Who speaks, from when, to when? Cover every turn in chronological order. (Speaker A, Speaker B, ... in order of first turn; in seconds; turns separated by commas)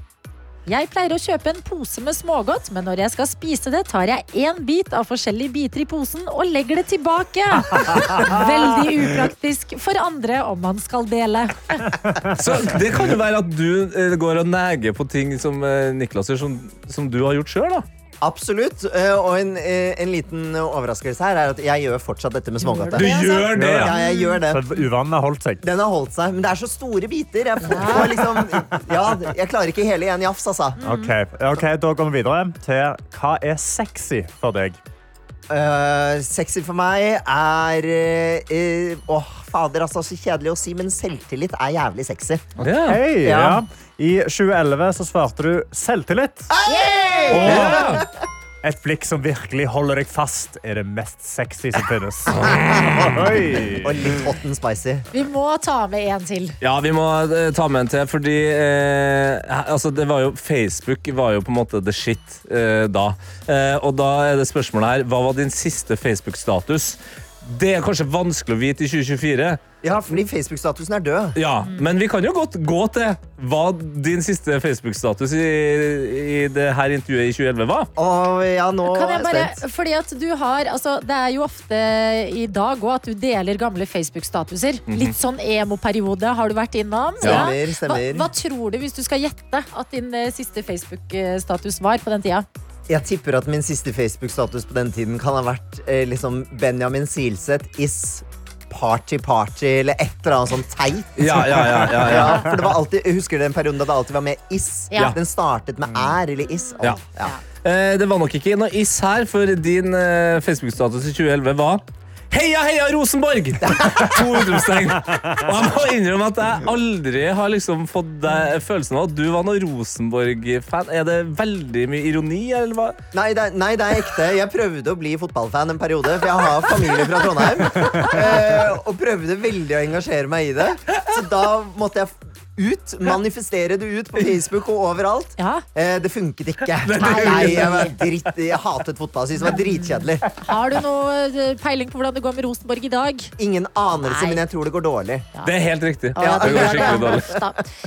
Speaker A: 0.7-12.0, Speaker B: 12.3-17.9, Speaker C: 18.2-24.7, Speaker A: 22.6-24.4, Speaker B: 23.0-23.9, Speaker D: 23.6-25.6, Speaker C: 25.6-30.8, Speaker A: 27.6-28.1, Speaker D: 28.2-28.5, Speaker A: 30.8-31.1, Speaker D: 30.8-34.8, Speaker C: 35.5-42.6, Speaker B: 42.6-43.0, Speaker D: 42.7-46.5, Speaker C: 43.2-43.6, Speaker C: 46.5-48.1, Speaker A: 46.7-47.5, Speaker D: 47.3-47.8, Speaker B: 47.3-48.0, Speaker D: 48.6-54.1, Speaker C: 52.5-52.9, Speaker C: 53.8-55.1, Speaker A: 55.1-56.6, Speaker B: 56.6-69.6, Speaker C: 69.8-71.4, Speaker B: 71.4-77.9, Speaker C: 78.0-79.6, Speaker A: 78.8-92.5, Speaker B: 84.9-85.1, Speaker B: 87.2-87.5, Speaker C: 87.2-88.3, Speaker C: 92.9-107.4, Speaker B: 101.2-102.5, Speaker B: 107.6-123.0, Speaker C: 113.6-114.2, Speaker C: 123.1-140.3, Speaker A: 135.4-135.7, Speaker B: 136.8-137.8, Speaker A: 137.0-138.0, Speaker A: 139.4-143.3, Speaker C: 143.4-145.3, Speaker A: 144.0-144.4, Speaker B: 145.4-147.3, Speaker C: 146.2-147.2, Speaker A: 146.2-147.7